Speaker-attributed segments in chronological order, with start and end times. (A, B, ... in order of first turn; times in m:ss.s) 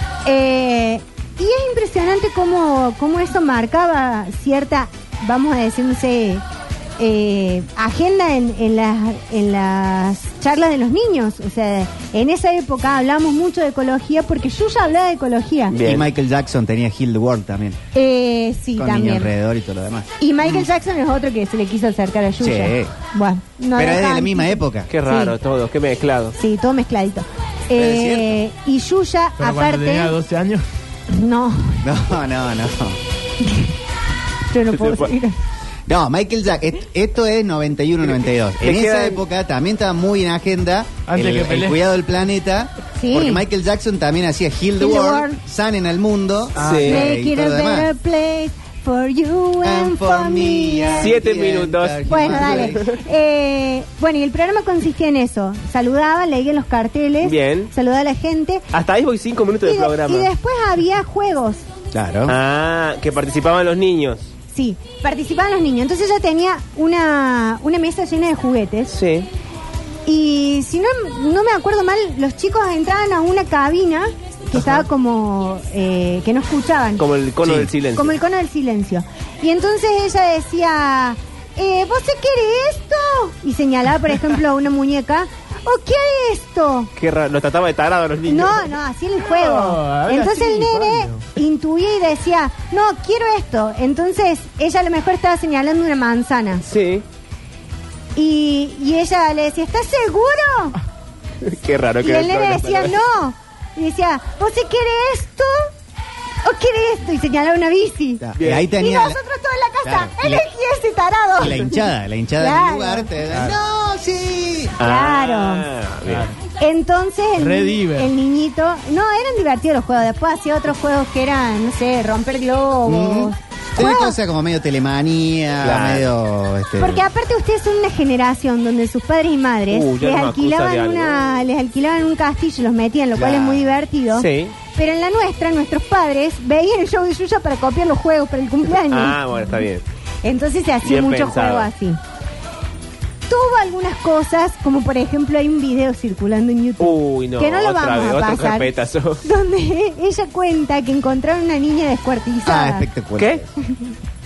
0:00.2-0:06.4 A
0:07.0-0:15.8 A
0:15.7-0:16.1 B
0:15.8-0:17.8 C
0:17.9-0:19.3 A
0:18.8-0:20.5 C
0:20.2-0:25.3 A
0:22.4-0:22.9 C
0:23.7-0:24.9 C
0:24.9-0:26.3 B
0:26.4-0:30.2 A
0:27.7-0:28.4 C
0:29.4-0:30.6 D
0:31.1-0:31.9 A
0:31.8-0:33.0 C
0:33.4-0:33.7 A
0:34.5-0:35.4 A
0:34.7-0:35.1 B
0:35.8-0:47.9 C
0:38.1-0:39.2 B
0:41.1-0:41.8 D
0:43.0-0:43.4 A
0:44.8-0:45.4 A
0:46.6-0:47.0 D
0:46.6-0:47.0 B
0:46.9-0:51.2 A
0:49.6-0:52.8 C
0:51.0-0:52.9 B
0:52.1-0:58.7 A
0:57.2-0:57.7 B
0:58.7-1:00.3 B
0:59.6-1:01.6 A
1:01.9-1:02.4 C
1:02.3-1:04.3 B
1:04.5-1:08.9 A
1:08.9-1:09.3 B
1:10.0-1:17.0 A
1:17.0-1:18.1 B
1:17.4-1:17.7 C
1:17.9-1:26.9 A
1:27.0-1:28.7 B
1:28.2-1:36.6 A
1:29.2-1:31.2 D
1:36.6-1:37.0 B
1:38.2-1:40.8 A
1:41.4-1:43.0 B
1:42.0-1:45.7 A
1:46.4-1:53.1 A
1:48.2-1:49.2 C
1:48.4-1:48.7 B
1:49.8-1:50.4 C
1:51.4-1:54.8 C
1:54.8-1:55.7 A
1:54.8-1:56.3 B
1:56.1-1:56.4 D
1:56.6-2:04.2 A
1:57.4-1:58.1 D
2:02.8-2:07.0 C
2:05.6-2:06.1 B
2:06.8-2:19.2 A
2:09.7-2:11.3 B
2:13.2-2:14.5 B
2:18.9-2:19.8 B
2:20.2-2:22.0 A
2:20.8-2:21.7 B
2:23.3-2:28.7 A
2:26.8-2:29.2 B
2:29.2-2:32.9 A
2:32.4-2:33.5 C